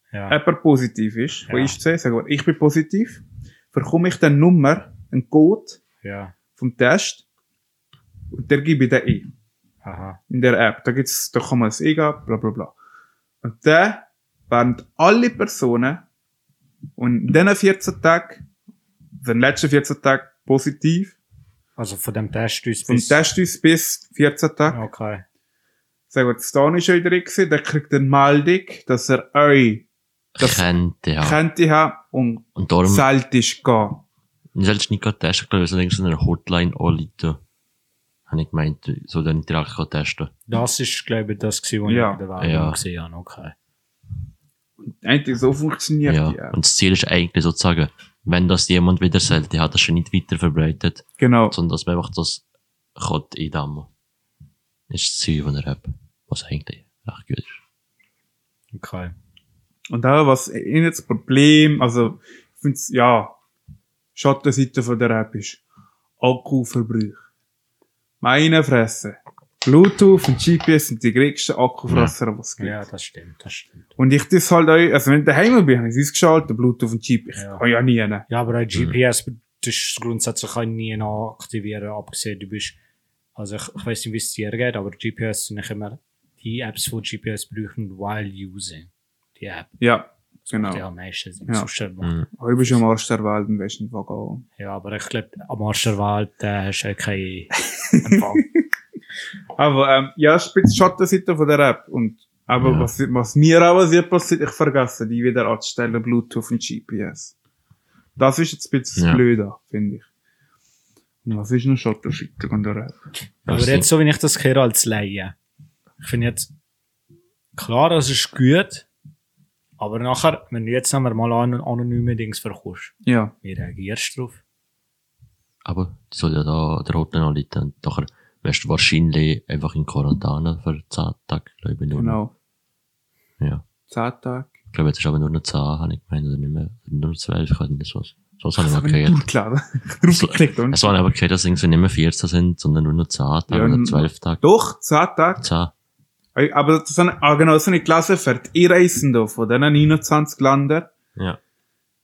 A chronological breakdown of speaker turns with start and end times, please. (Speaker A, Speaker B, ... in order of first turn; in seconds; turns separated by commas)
Speaker A: 0.3-5.8, Speaker B: 1.5-1.8, Speaker B: 6.0-6.3, Speaker A: 6.6-7.2, Speaker A: 8.3-9.3, Speaker B: 9.8-10.2, Speaker A: 10.3-12.7, Speaker A: 13.4-16.0, Speaker A: 17.0-18.4, Speaker A: 19.2-21.2, Speaker B: 21.8-23.2, Speaker A: 22.9-24.8, Speaker B: 24.7-25.2, Speaker A: 26.1-29.9, Speaker C: 30.3-31.4, Speaker A: 30.4-30.6, Speaker A: 31.2-34.0, Speaker C: 32.5-33.1, Speaker C: 34.5-37.4, Speaker C: 38.3-40.3, Speaker B: 40.5-43.5, Speaker A: 41.9-42.2, Speaker C: 42.4-42.8, Speaker A: 44.8-46.5, Speaker C: 46.0-52.4, Speaker A: 51.2-51.5, Speaker C: 53.0-53.9, Speaker C: 54.9-57.6, Speaker B: 58.7-59.1, Speaker A: 59.9-63.3, Speaker A: 64.2-65.6, Speaker A: 66.2-67.2, Speaker A: 68.2-72.8, Speaker C: 71.9-72.1, Speaker B: 72.6-73.8, Speaker A: 74.0-78.2, Speaker B: 77.3-77.6, Speaker B: 78.3-82.8, Speaker B: 83.4-89.8, Speaker A: 89.8-90.8, Speaker B: 90.5-92.2, Speaker C: 92.0-92.3, Speaker A: 92.3-94.4, Speaker B: 94.6-98.5, Speaker A: 97.9-98.4, Speaker A: 99.5-107.3, Speaker C: 102.6-102.9, Speaker A: 108.2-110.1, Speaker C: 109.0-109.2, Speaker A: 111.2-113.0, Speaker C: 113.4-113.9, Speaker B: 113.5-115.3, Speaker B: 116.0-116.5, Speaker B: 117.5-118.9, Speaker B: 119.8-124.4, Speaker A: 123.0-123.3, Speaker C: 125.6-132.2, Speaker A: 131.9-132.3, Speaker C: 133.4-133.6, Speaker A: 133.9-134.5, Speaker C: 134.7-139.2, Speaker A: 138.6-140.9, Speaker C: 140.1-144.4, Speaker A: 143.5-145.4, Speaker C: 145.4-145.7, Speaker A: 146.3-150.9